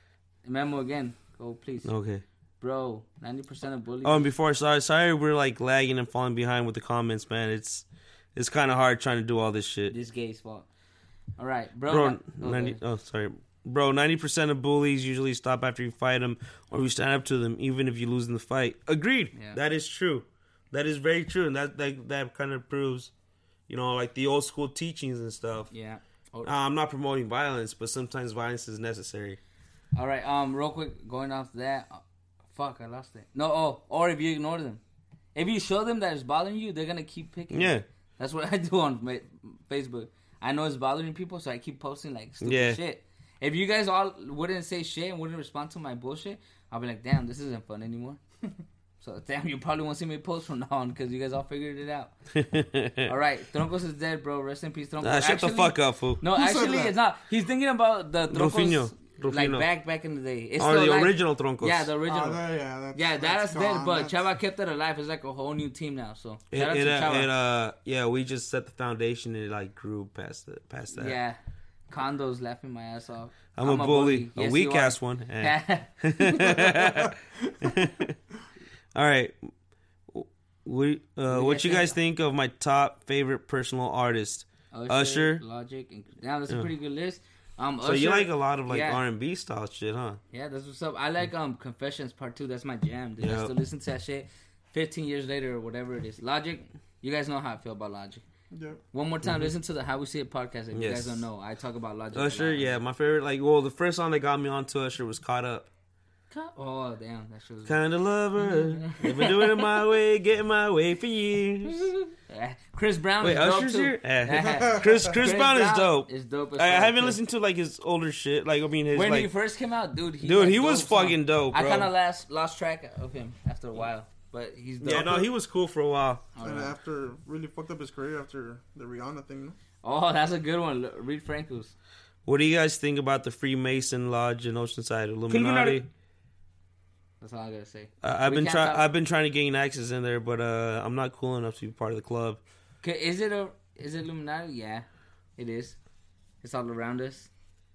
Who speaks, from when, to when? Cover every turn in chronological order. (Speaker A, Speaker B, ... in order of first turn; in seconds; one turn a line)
Speaker A: 0.5-1.9
Speaker B: 1.9-2.2
Speaker A: 2.6-4.3
Speaker B: 4.0-9.9
Speaker A: 9.9-10.7
Speaker A: 11.4-12.8
Speaker B: 11.9-23.1
Speaker A: 19.3-19.6
Speaker B: 23.7-25.7
Speaker A: 25.7-26.5
Speaker B: 26.4-29.4
Speaker A: 29.9-34.8
Speaker A: 35.4-48.2
Speaker B: 37.5-37.9
Speaker B: 42.4-42.8
Speaker A: 49.0-52.1
Speaker B: 52.3-53.1
Speaker A: 53.1-62.4
Speaker B: 55.0-56.2
Speaker C: 56.3-57.0
Speaker B: 58.3-59.7
Speaker B: 60.6-61.9
Speaker C: 62.1-64.2
Speaker A: 62.9-67.3
Speaker B: 66.5-71.2
Speaker A: 70.9-76.7
Speaker B: 73.5-78.2
Speaker B: 78.9-79.5
Speaker B: 80.1-85.4
Speaker A: 81.3-82.0
Speaker A: 84.7-89.0
Speaker B: 87.8-90.2
Speaker A: 90.3-98.2
Speaker B: 93.2-93.5
Speaker C: 98.5-98.8
Speaker A: 98.9-102.8
Speaker B: 100.7-101.3
Speaker B: 102.1-105.7
Speaker A: 106.3-107.8
Speaker B: 107.7-111.9
Speaker A: 108.4-109.8
Speaker A: 112.3-117.2
Speaker B: 113.2-119.3
Speaker C: 114.5-114.8
Speaker A: 118.9-125.3
Speaker B: 120.2-121.9
Speaker B: 124.8-126.2
Speaker A: 126.3-126.7
Speaker C: 126.4-129.6
Speaker A: 129.8-131.8
Speaker B: 132.2-135.9
Speaker A: 135.3-135.8
Speaker A: 137.2-138.8
Speaker B: 138.0-142.4
Speaker A: 142.8-144.9
Speaker A: 145.4-145.8
Speaker A: 146.4-147.3